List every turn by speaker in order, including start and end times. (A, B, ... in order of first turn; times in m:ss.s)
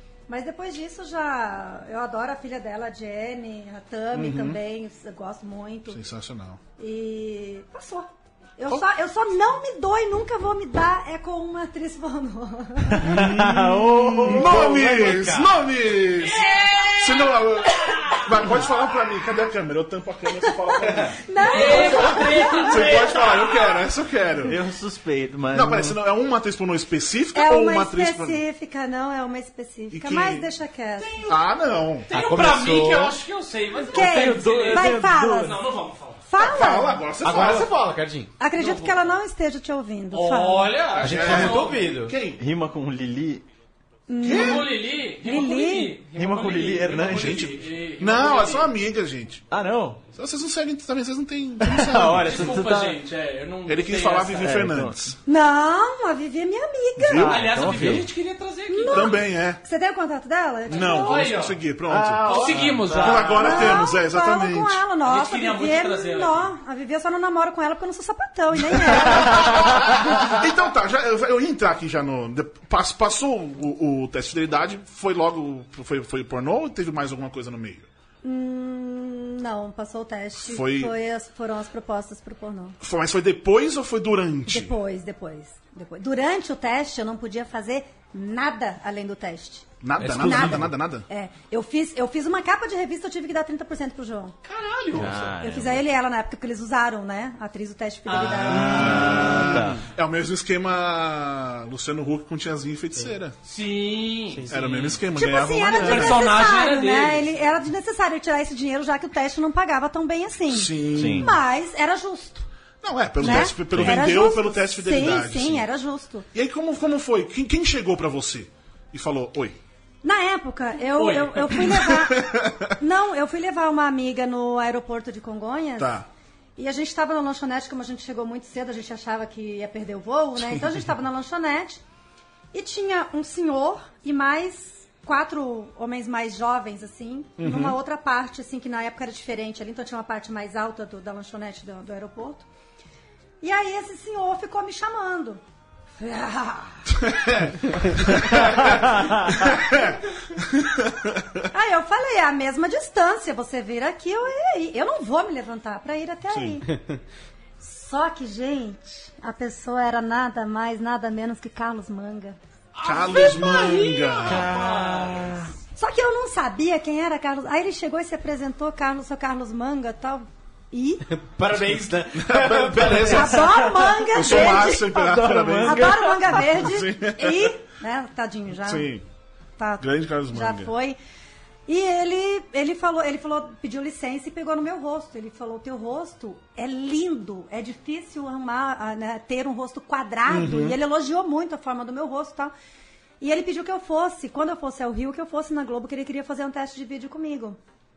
0:00.3-0:06.0 A
0:04.1-0:04.6 B
0:05.9-0:06.6 B
0:06.8-0:13.1 A
0:12.9-0:14.8 C
0:13.0-0:15.5 D
0:13.2-0:24.6 B
0:16.3-0:17.0 E
0:17.8-0:18.2 E
0:20.3-0:23.1 A
0:21.4-0:23.8 E
0:24.4-0:26.0 C
0:25.5-0:28.4 B
0:27.3-0:31.2 A
0:29.9-0:30.5 B
0:31.0-0:31.5 E
0:31.2-0:32.1 B
0:32.1-0:36.2 E
0:32.1-0:33.2 D
0:33.9-0:35.6 A
0:33.9-0:35.6 C
0:36.3-0:37.0 A
0:36.4-0:37.7 B
0:37.2-0:38.3 D
0:38.4-0:40.7 A
0:38.5-0:39.0 E
0:40.1-0:41.8 E
0:40.9-0:42.1 D
0:41.0-0:42.4 B
0:42.4-0:43.4 C
0:44.1-0:46.0 A
0:44.2-0:48.8 E
0:44.2-0:44.6 B
0:46.1-0:47.5 C
0:47.0-0:49.4 B
0:49.5-0:50.0 C
0:50.1-0:52.6 B
0:51.6-0:53.0 C
0:52.1-0:54.6 E
0:53.7-0:55.2 B
0:54.4-0:55.0 C
0:55.2-0:57.4 A
0:57.0-0:58.0 B
0:57.2-0:59.2 E
0:57.2-0:58.1 C
0:58.7-1:01.3 A
0:58.9-0:59.6 B
1:00.7-1:01.6 E
1:00.7-1:04.8 B
1:01.9-1:03.5 C
1:02.2-1:03.8 E
1:03.4-1:09.5 A
1:05.0-1:06.5 E
1:08.7-1:17.9 B
1:18.2-1:22.8 A
1:20.4-1:20.9 B
1:22.8-1:24.7 B
1:24.5-1:34.3 A
1:29.8-1:31.0 B
1:30.0-1:30.7 D
1:34.4-1:35.3 E
1:34.9-1:35.9 C
1:35.4-1:39.2 A
1:38.1-1:39.3 E
1:38.4-1:43.3 B
1:38.5-1:39.8 C
1:43.4-1:45.0 E
1:44.5-1:46.3 B
1:45.1-1:52.5 A
1:45.7-1:47.3 E
1:50.5-1:51.4 B
1:50.9-1:51.3 C
1:52.8-1:55.7 B
1:53.2-1:56.3 A
1:53.2-1:54.1 C
1:56.3-1:59.6 B
2:00.0-2:06.0 A
2:01.0-2:01.6 E
2:01.6-2:02.6 B
2:05.8-2:06.0 B
2:06.6-2:11.8 A
2:12.5-2:22.4 A
2:17.4-2:17.8 B
2:23.4-2:25.4 A
2:26.0-2:26.9 A
2:27.0-2:31.4 B
2:31.5-2:36.7 A
2:36.3-2:36.6 B
2:37.6-2:42.4 A
2:42.7-2:45.3 E
2:42.8-2:44.5 B
2:43.2-2:43.5 A
2:44.2-2:45.5 C
2:45.8-2:51.0 A
2:51.0-2:53.4 D
2:52.1-2:53.5 B
2:53.1-2:58.9 A
2:53.6-2:56.6 C
2:54.1-2:57.6 B
2:58.6-2:59.0 B
2:59.6-3:01.0 A
2:59.8-3:00.7 B
3:01.7-3:12.5 A
3:10.3-3:10.8 B
3:13.2-3:17.6 A